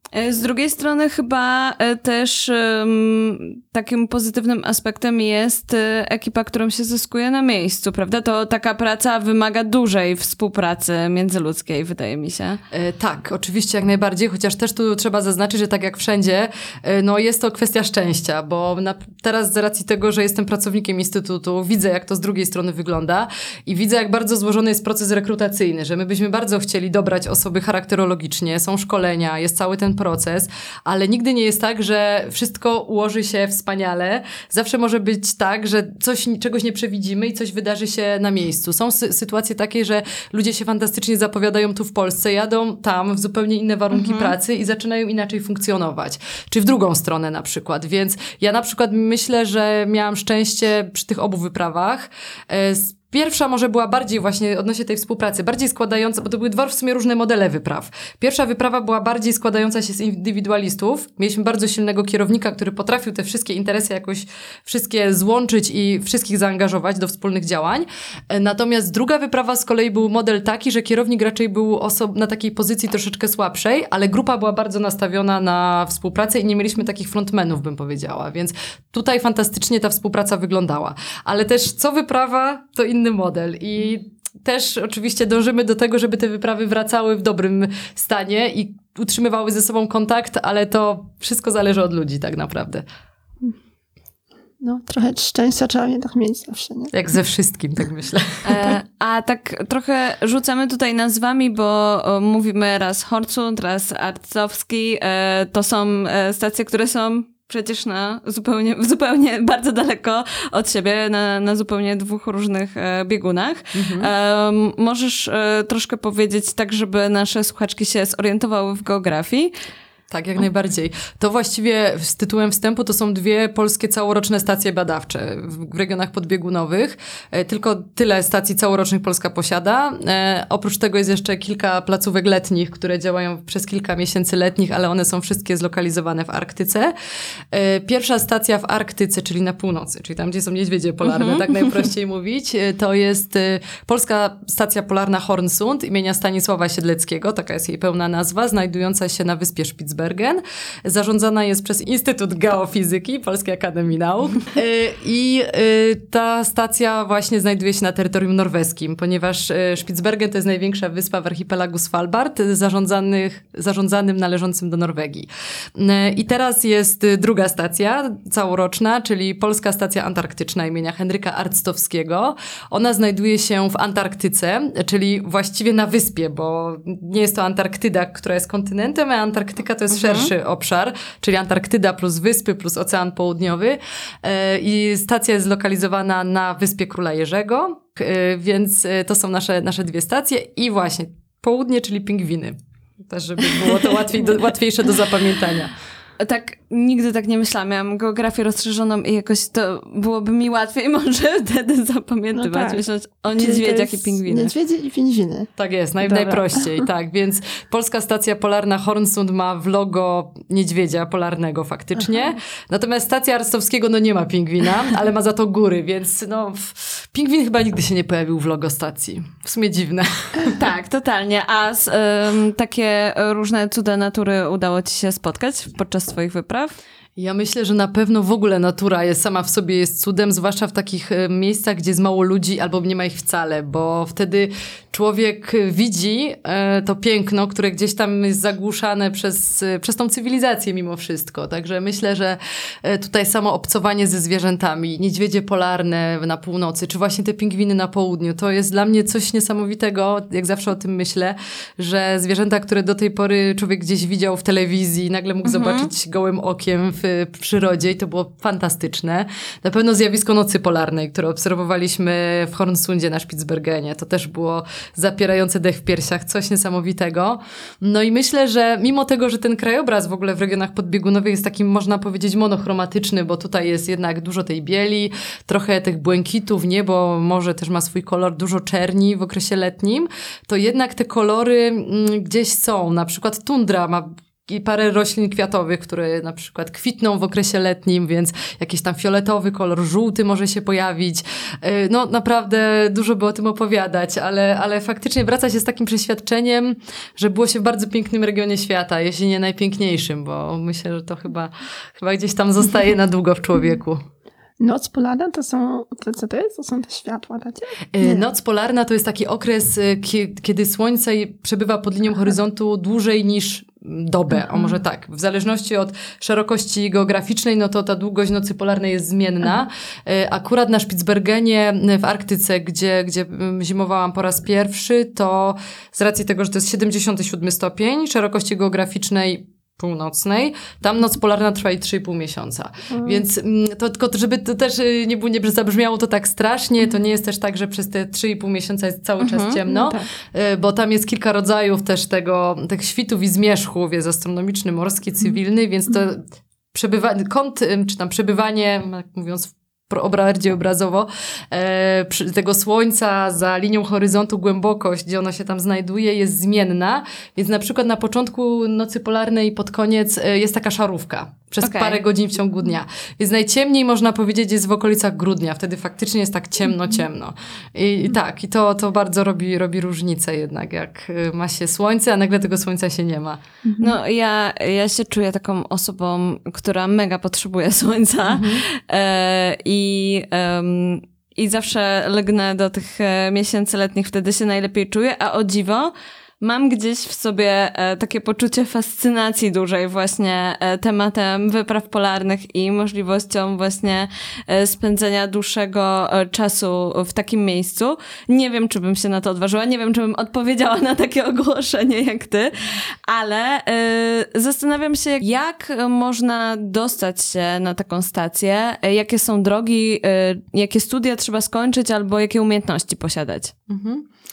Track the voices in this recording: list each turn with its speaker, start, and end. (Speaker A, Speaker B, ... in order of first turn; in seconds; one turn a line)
Speaker A: 0.1-12.6
Speaker B: 12.7-92.8
Speaker A: 43.9-44.4
Speaker C: 94.6-96.9
Speaker B: 96.9-98.8
Speaker A: 98.5-119.5
Speaker B: 113.8-114.1
Speaker B: 120.1-136.9
Speaker B: 137.5-192.6
Speaker A: 141.0-141.8
Speaker A: 179.9-180.3
Speaker B: 193.1-195.7
Speaker A: 196.2-204.5
Speaker C: 202.3-202.8
Speaker C: 203.3-205.5
Speaker B: 205.6-220.6
Speaker C: 206.0-206.8
Speaker A: 220.5-226.8
Speaker B: 227.2-304.0
Speaker A: 255.4-255.9
Speaker C: 304.6-308.2
Speaker B: 307.9-373.4
Speaker C: 314.5-314.7
Speaker C: 332.9-333.2
Speaker A: 339.2-339.6
Speaker C: 339.7-340.1
Speaker A: 361.6-362.0
Speaker C: 373.6-374.0
Speaker A: 373.8-413.5
Speaker B: 378.3-378.6
Speaker B: 413.7-414.1